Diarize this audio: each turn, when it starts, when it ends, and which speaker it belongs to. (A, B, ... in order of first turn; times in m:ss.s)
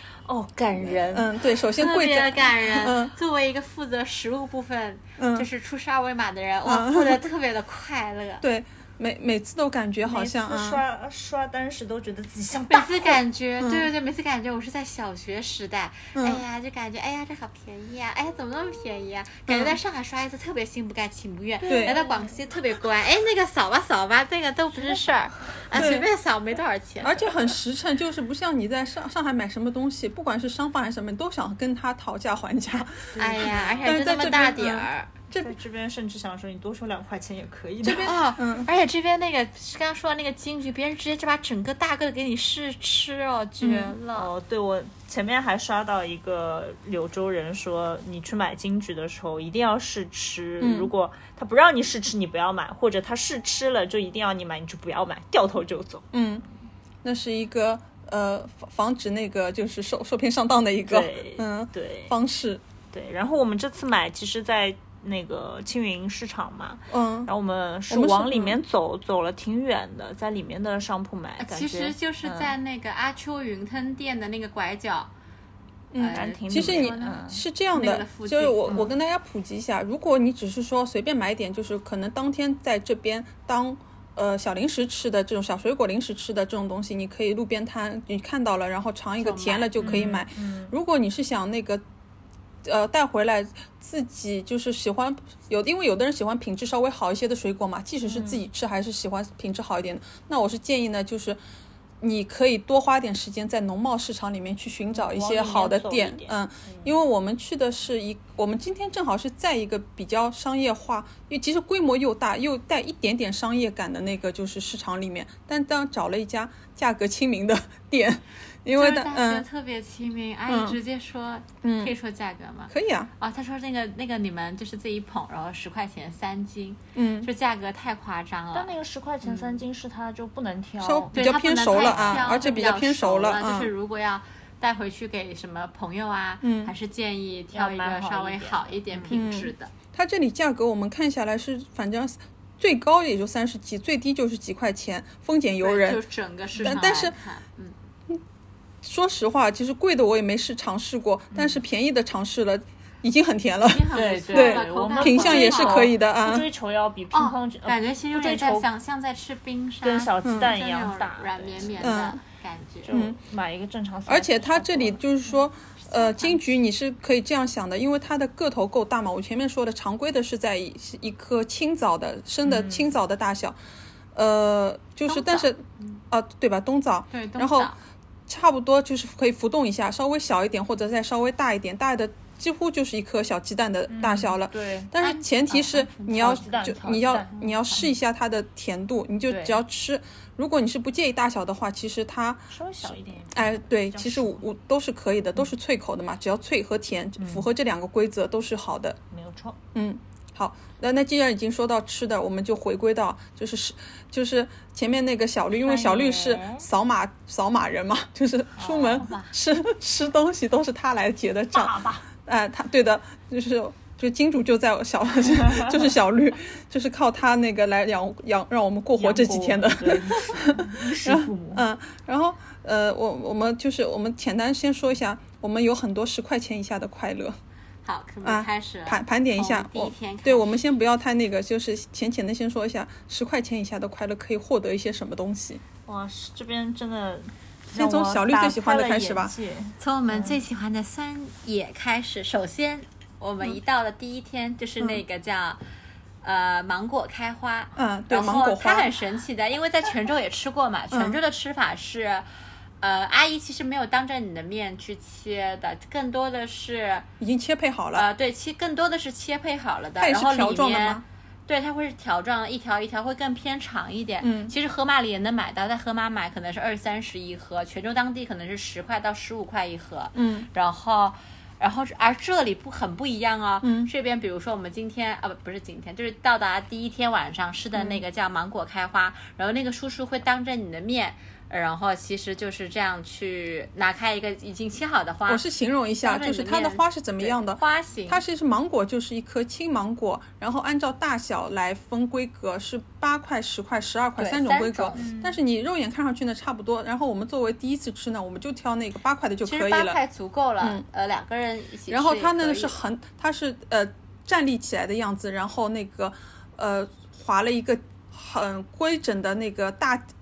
0:00.2-0:01.3 A
0:00.8-0:03.1 B
0:01.7-0:08.4 C
0:05.2-0:05.5 B
0:06.6-0:07.2 B
0:08.4-0:10.8 B
0:10.0-0:13.2 A
0:12.7-0:27.4 C
0:13.6-0:13.9 B
0:16.1-0:16.4 B
0:19.5-0:19.8 B
0:21.6-0:22.4 A
0:21.6-0:22.0 B
0:24.7-0:25.2 A
0:25.7-0:26.1 B
0:27.0-0:35.5 B
0:33.2-0:35.1 C
0:33.3-0:33.9 A
0:35.3-0:38.2 A
0:37.8-0:44.3 C
0:37.9-0:38.7 B
0:43.6-0:43.9 B
0:44.1-0:56.1 A
0:50.6-0:50.9 B
0:56.1-0:56.4 B
0:57.0-1:02.6 B
1:00.8-1:02.1 A
1:02.9-1:12.5 A
1:06.9-1:07.3 B
1:07.9-1:08.6 B
1:11.4-1:15.1 C
1:15.9-1:31.8 B
1:16.0-1:17.2 C
1:16.1-1:17.4 A
1:17.7-1:18.9 C
1:29.2-1:30.0 C
1:29.8-1:30.7 A
1:32.6-1:41.4 B
1:38.1-1:38.4 A
1:42.0-1:59.4 B
1:44.9-1:46.9 A
1:58.7-2:09.6 C
2:00.5-2:00.8 B
2:01.6-2:01.9 B
2:02.7-2:03.1 B
2:06.9-2:07.3 B
2:08.5-2:12.3 A
2:10.8-2:13.7 B
2:11.1-2:19.7 C
2:16.4-2:16.7 B
2:17.5-2:19.2 A
2:19.1-2:26.0 B
2:25.6-2:27.8 C
2:26.6-2:27.2 B
2:28.8-2:36.5 B
2:31.3-2:31.6 A
2:33.6-2:35.9 C
2:33.9-2:38.6 A
2:37.1-2:42.9 C
2:39.8-2:42.0 A
2:40.2-2:40.5 B
2:41.8-2:42.2 B
2:42.8-2:45.0 A
2:42.9-2:43.2 B
2:44.1-2:53.6 B
2:45.8-2:46.4 C
2:52.4-2:52.9 A
2:54.1-2:57.7 B
2:55.1-2:56.0 C
2:57.1-2:57.8 C
2:58.3-3:19.0 B
3:03.9-3:04.9 A
3:05.0-3:06.6 C
3:06.1-3:07.6 A
3:12.5-3:14.4 A
3:17.2-3:17.5 A
3:19.1-3:19.6 A
3:19.7-3:47.4 B
3:25.5-3:26.6 A
3:28.6-3:29.1 A
3:29.0-3:29.3 C
3:31.5-3:32.0 A
3:35.3-3:35.8 A
3:39.0-3:41.6 A
3:47.8-3:50.6 C
3:48.2-3:55.6 B
3:55.8-4:00.4 A
3:57.7-3:59.3 B
3:59.8-4:05.6 C
4:06.2-4:12.2 C
4:07.8-4:08.9 B
4:10.9-4:11.2 B
4:12.8-4:17.1 C
4:17.2-4:18.0 B
4:17.9-4:45.4 C
4:20.0-4:21.0 B
4:24.2-4:24.5 B
4:30.1-4:30.5 B
4:33.6-4:33.9 B
4:45.3-5:00.0 B
4:46.0-4:48.2 C
4:54.2-4:55.0 C
4:55.0-4:55.4 A
4:59.4-5:02.7 C
5:01.9-5:10.1 B